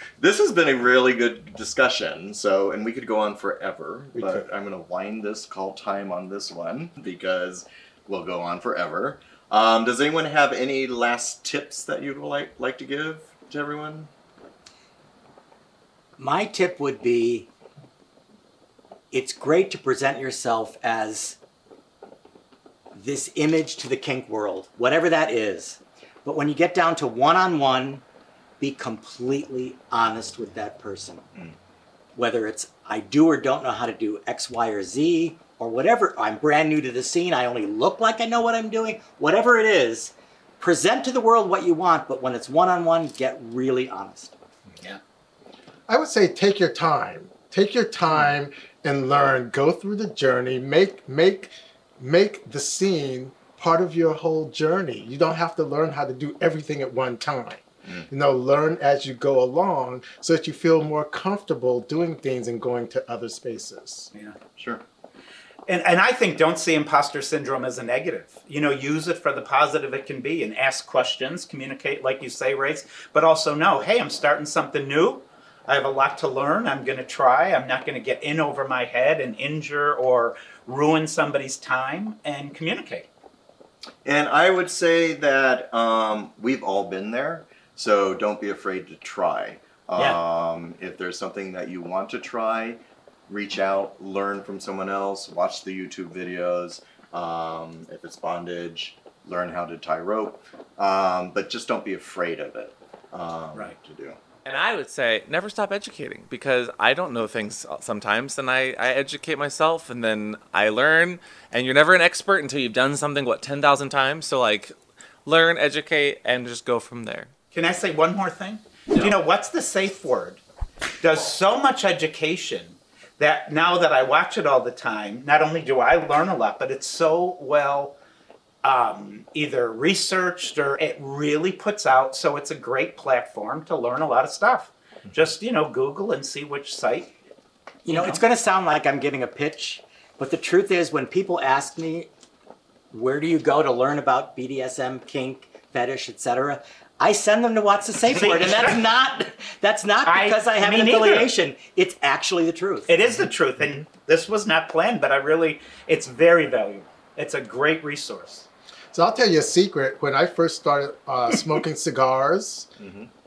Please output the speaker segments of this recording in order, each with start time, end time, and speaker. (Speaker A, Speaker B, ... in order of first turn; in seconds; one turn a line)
Speaker A: 0.2-14.1
Speaker B: 4.2-4.4
Speaker C: 16.2-17.5
Speaker C: 19.1-21.4
Speaker C: 22.9-28.0
Speaker C: 28.6-31.2
Speaker C: 32.1-44.3
Speaker B: 45.9-64.1
Speaker A: 64.6-64.8
Speaker D: 65.7-83.1
Speaker A: 84.0-104.2
Speaker E: 104.4-114.7
Speaker E: 115.2-117.3
Speaker D: 117.5-120.4
Speaker D: 121.0-128.0
Speaker D: 128.6-137.1
Speaker C: 137.8-142.1
Speaker D: 137.9-138.2
Speaker C: 142.9-152.9
Speaker D: 148.1-148.8
Speaker D: 150.1-151.3
Speaker D: 152.9-158.5
Speaker B: 158.9-162.7
Speaker A: 162.8-163.1